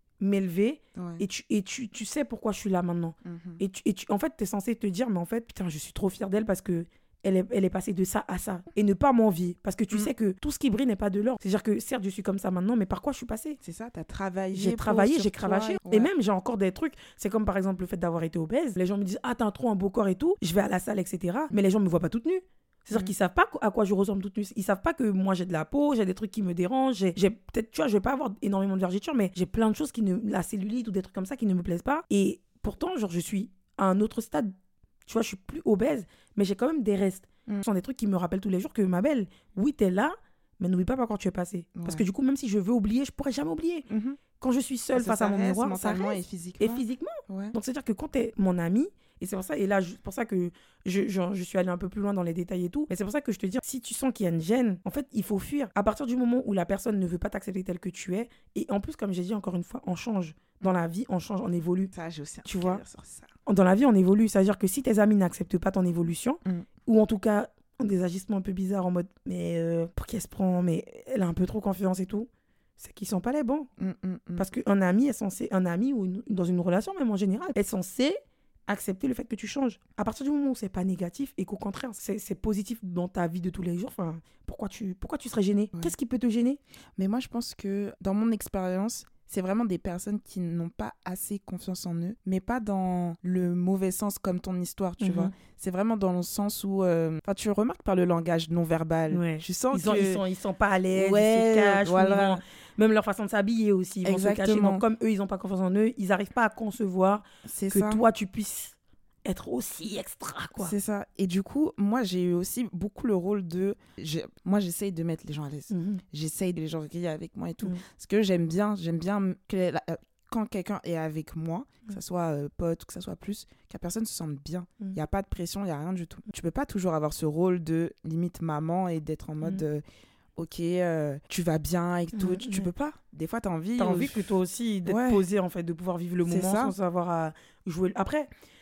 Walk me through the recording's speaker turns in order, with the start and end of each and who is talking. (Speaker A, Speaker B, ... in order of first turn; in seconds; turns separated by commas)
Speaker A: 0.2-13.6, Speaker B: 0.9-1.2, Speaker B: 3.2-3.6, Speaker B: 13.6-16.1, Speaker A: 14.5-34.5, Speaker A: 35.0-43.9, Speaker B: 41.8-42.0, Speaker B: 43.9-44.2, Speaker A: 44.4-61.9, Speaker B: 44.9-47.5, Speaker B: 61.9-63.3, Speaker A: 62.4-62.8, Speaker A: 63.5-73.7, Speaker B: 73.8-74.5, Speaker A: 74.4-86.6, Speaker B: 87.0-100.2, Speaker A: 95.0-95.3, Speaker A: 99.1-110.7, Speaker B: 100.9-102.4, Speaker B: 104.0-104.8, Speaker B: 107.4-108.0, Speaker B: 110.6-129.8, Speaker A: 115.7-116.0, Speaker B: 130.3-134.3, Speaker A: 132.1-132.7, Speaker A: 133.8-138.3, Speaker B: 134.8-135.2, Speaker B: 136.2-136.7